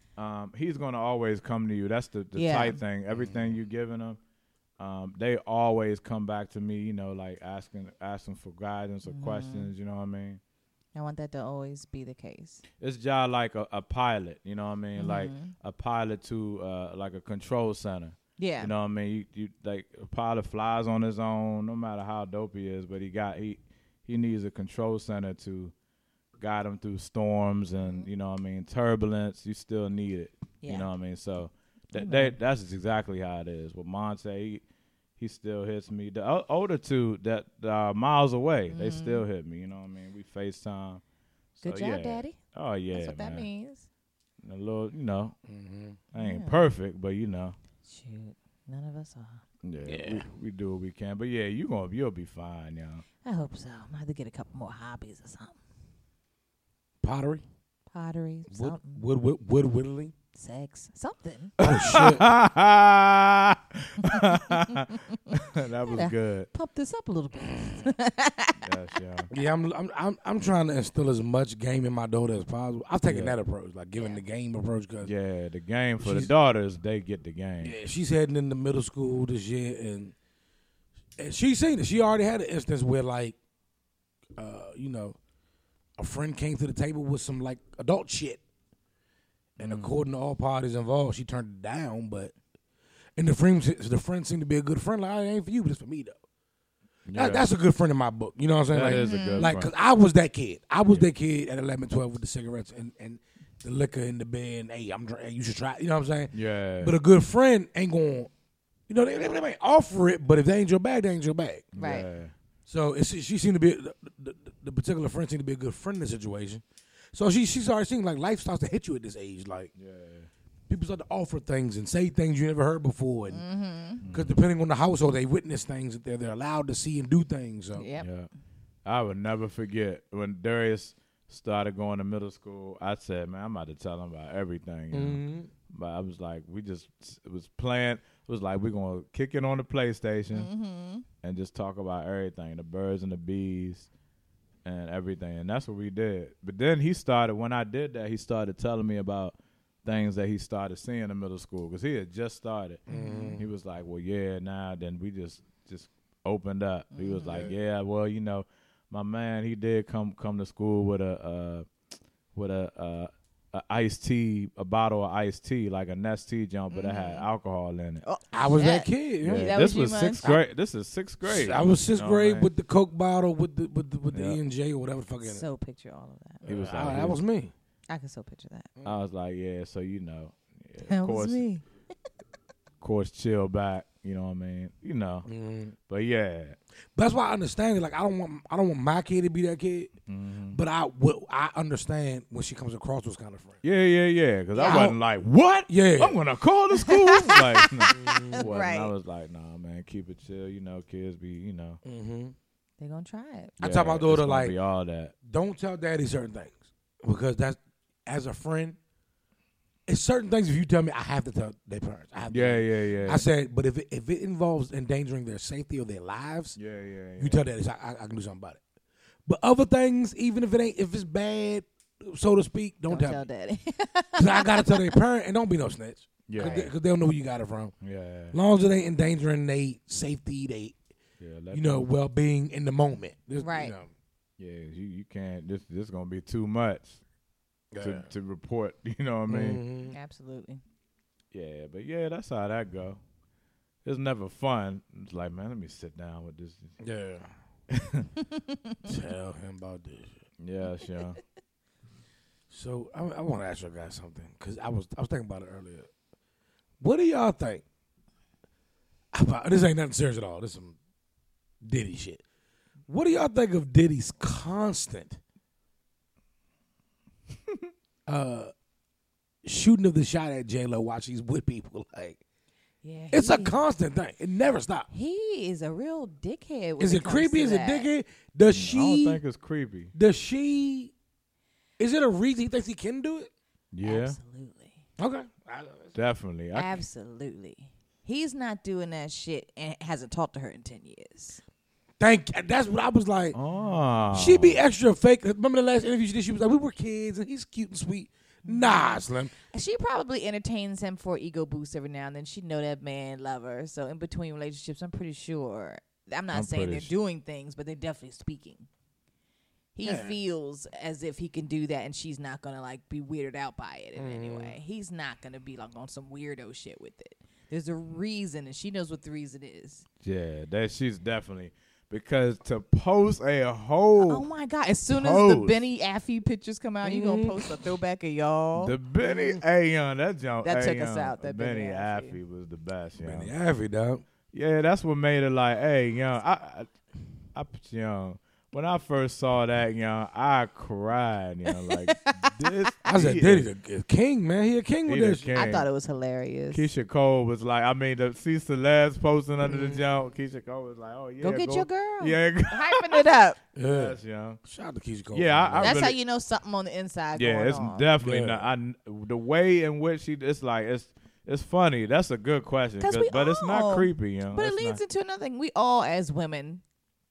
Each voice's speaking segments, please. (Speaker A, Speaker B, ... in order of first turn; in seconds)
Speaker A: 0.2-4.2, 4.8-10.4, 12.8-25.7, 26.4-34.6, 35.2-41.0, 41.6-43.5, 44.4-45.3, 46.1-47.5, 49.6-53.0, 61.6-66.5, 68.6-69.3, 73.0-73.4, 75.0-77.8, 89.6-90.0, 97.0-97.5, 98.7-99.7, 106.3-106.9, 111.7-112.3, 119.8-120.3, 124.0-124.4, 128.0-128.3, 128.8-140.5, 141.2-143.9, 144.6-152.8, 153.3-161.7, 162.3-168.0, 169.2-172.5, 174.1-174.4, 176.4-177.2, 178.8-181.4, 182.8-185.3, 185.9-186.6, 190.1-190.6, 193.6-201.8, 203.6-205.1, 212.3-213.2, 216.6-217.4, 226.3-226.7, 227.8-228.4, 231.2-231.9, 234.4-237.0, 237.8-239.6, 241.3-243.0, 243.8-246.7, 247.7-248.1, 250.4-251.2, 278.5-279.9, 283.7-284.2, 285.9-286.8, 293.3-294.6, 306.3-306.9, 320.0-324.2, 324.9-325.6, 328.6-333.3, 334.3-336.7, 337.3-343.5, 344.9-345.7, 346.5-353.0, 353.6-354.4, 355.1-356.0, 357.1-364.8
Speaker B: 2.3-2.8, 9.1-9.7, 10.9-12.6, 14.9-15.5, 18.4-18.7, 30.6-30.9, 31.9-32.4, 38.7-39.2, 41.6-42.4, 42.9-43.9, 46.1-46.6, 47.9-49.4, 53.2-55.6, 57.9-59.0, 60.3-61.5, 64.0-68.6, 74.0-74.2, 98.9-99.5, 111.8-112.1, 123.3-124.0, 127.8-128.1, 140.3-141.0, 152.9-153.4, 156.9-157.4, 166.7-167.2, 168.0-170.3, 175.2-176.4, 177.9-178.7, 180.8-181.6, 194.5-194.9, 196.8-198.9, 202.8-203.5, 222.9-225.0, 226.4-226.7, 233.4-233.7, 239.9-240.6, 272.8-273.6, 274.9-277.9, 283.8-284.8, 286.5-291.4, 298.4-308.7, 309.7-319.8, 324.0-328.7, 330.4-332.2, 341.5-342.3, 345.3-346.6, 351.2-353.4, 355.6-357.9, 362.8-366.6
Speaker C: 3.1-3.5, 45.5-46.0, 49.9-50.3, 57.0-57.4, 58.5-60.1, 61.6-62.3, 69.3-75.1, 76.0-76.3, 77.6-80.1, 81.2-83.4, 84.3-85.2, 86.0-88.4, 89.6-92.3, 93.2-96.2, 97.1-108.3, 108.9-111.7, 112.7-119.7, 120.7-123.4, 124.1-127.9, 134.9-135.5, 152.9-153.4, 157.3-157.5, 168.3-169.6, 171.2-175.4, 176.4-177.5, 185.2-185.7, 186.9-189.9, 190.5-193.6, 194.6-195.0, 195.7-196.2, 197.9-198.5, 201.8-202.3, 203.6-204.6, 205.2-208.8, 209.9-216.6, 217.2-218.6, 219.2-223.2, 224.2-227.7, 228.3-230.8, 231.5-233.9, 237.7-238.1, 239.3-239.9, 246.8-247.3, 248.8-250.2, 252.5-255.9, 256.8-257.6, 259.1-260.8, 261.6-262.2, 262.9-265.2, 268.1-268.5, 269.4-272.2, 273.1-274.9, 276.8-279.2, 279.9-280.9, 281.8-283.3, 285.0-285.9, 292.0-293.4, 294.1-299.3, 309.8-310.2, 313.9-314.6, 326.8-327.7, 329.0-329.4, 333.0-334.0, 342.8-345.3, 349.4-349.8, 353.6-355.8, 358.0-358.5